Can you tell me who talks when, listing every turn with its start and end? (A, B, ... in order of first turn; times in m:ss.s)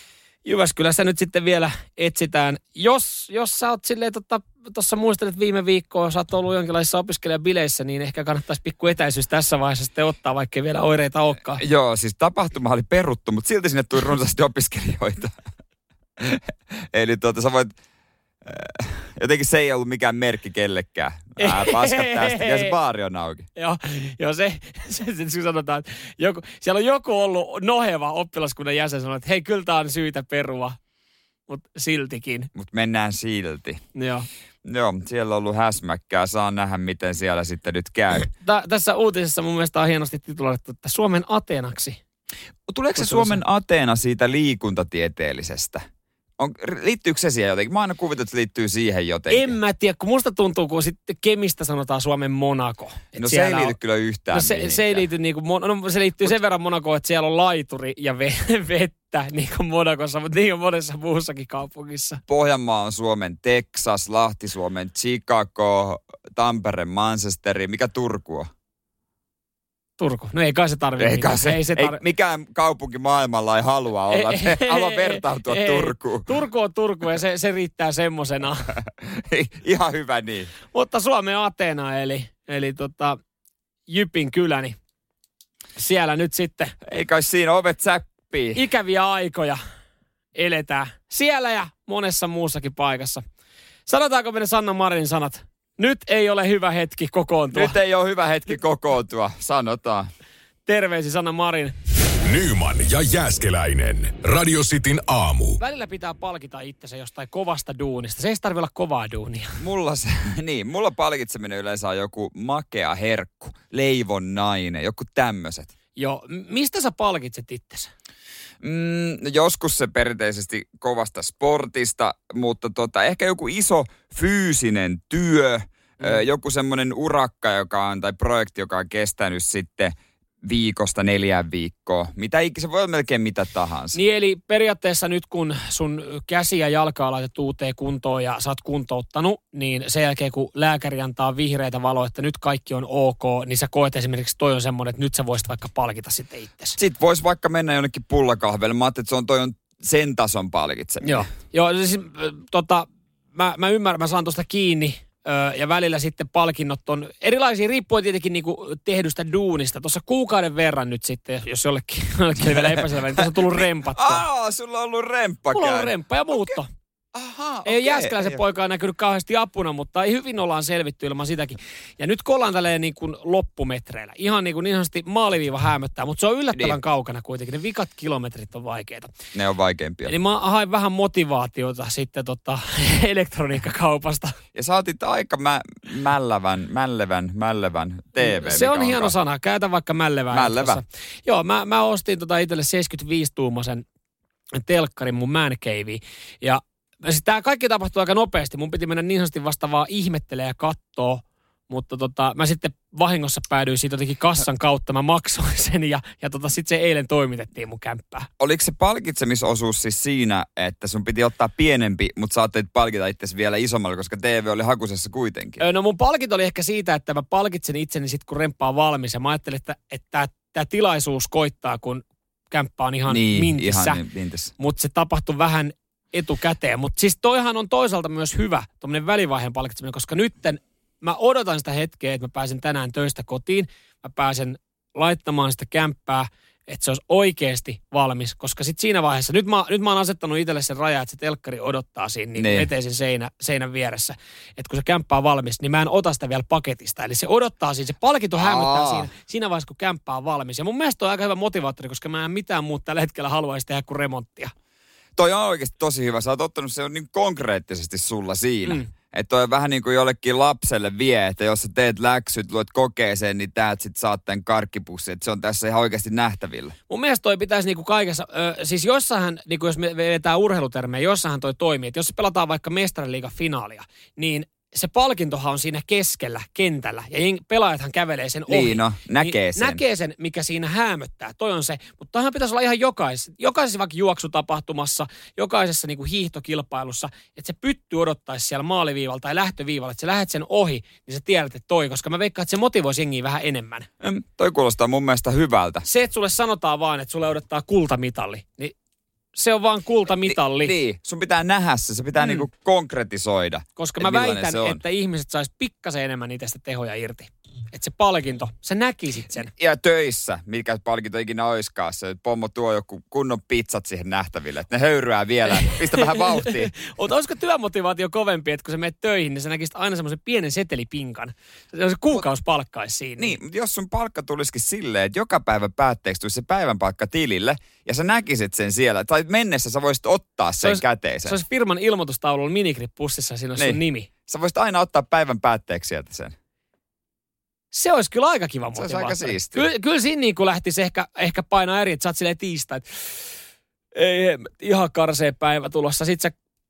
0:00.4-0:11.6 A
0:11.6-0:15.4 B
0:16.2-0:17.8 B
0:18.4-0:23.5 B
0:21.4-0:22.8 A
0:23.6-0:30.8 A
0:31.5-0:32.5 A
0:32.5-0:33.8 B
0:34.0-0:34.3 A
0:34.6-0:38.3 B
0:38.4-0:42.0 A
0:42.7-0:45.8 B
0:43.0-0:43.4 A
0:46.4-0:49.6 B
0:49.3-0:53.8 A
0:53.2-0:55.1 B
0:54.3-1:02.2 A
1:02.3-1:08.5 B
1:10.0-1:12.0 A
1:11.0-1:16.3 B
1:14.1-1:18.8 A
1:18.8-1:20.5 B
1:20.7-1:23.2 A
1:23.9-1:24.8 A
1:25.8-1:26.8 A
1:26.8-1:28.6 B
1:28.6-1:29.6 A
1:30.4-1:33.2 A
1:33.9-1:37.8 A
1:37.5-1:40.1 B
1:40.7-1:41.8 A
1:42.2-1:45.6 C
1:45.6-1:49.6 A
1:49.6-1:55.7 B
1:56.0-1:57.9 A
1:58.6-2:14.0 B
2:13.9-2:26.8 A
2:26.8-2:31.3 B
2:31.0-2:44.2 A
2:42.5-2:45.9 B
2:45.5-2:46.7 A
2:47.1-2:48.4 B
2:47.6-2:59.2 A
2:59.3-3:00.2 B
3:00.1-3:04.4 A
3:04.5-3:09.1 B
3:08.2-3:13.8 A
3:10.3-3:10.8 B
3:14.6-3:28.3 A
3:28.4-3:35.6 B
3:35.6-3:44.0 A
3:43.1-3:44.5 B
3:44.6-4:14.5 A
4:02.4-4:02.7 B
4:08.4-4:09.1 B
4:15.2-4:26.8 B
4:26.9-4:53.9 A
4:38.5-4:39.8 B
4:54.0-4:55.8 B
4:55.8-4:58.7 A
4:59.4-5:00.8 A
5:00.3-5:04.8 B
5:03.8-5:09.5 A
5:09.5-5:16.8 B
5:15.6-5:23.4 A
5:23.2-5:31.4 B
5:30.6-5:34.1 A
5:33.6-5:36.4 B
5:37.7-5:43.2 A
5:38.8-5:39.7 B
5:44.0-5:46.3 A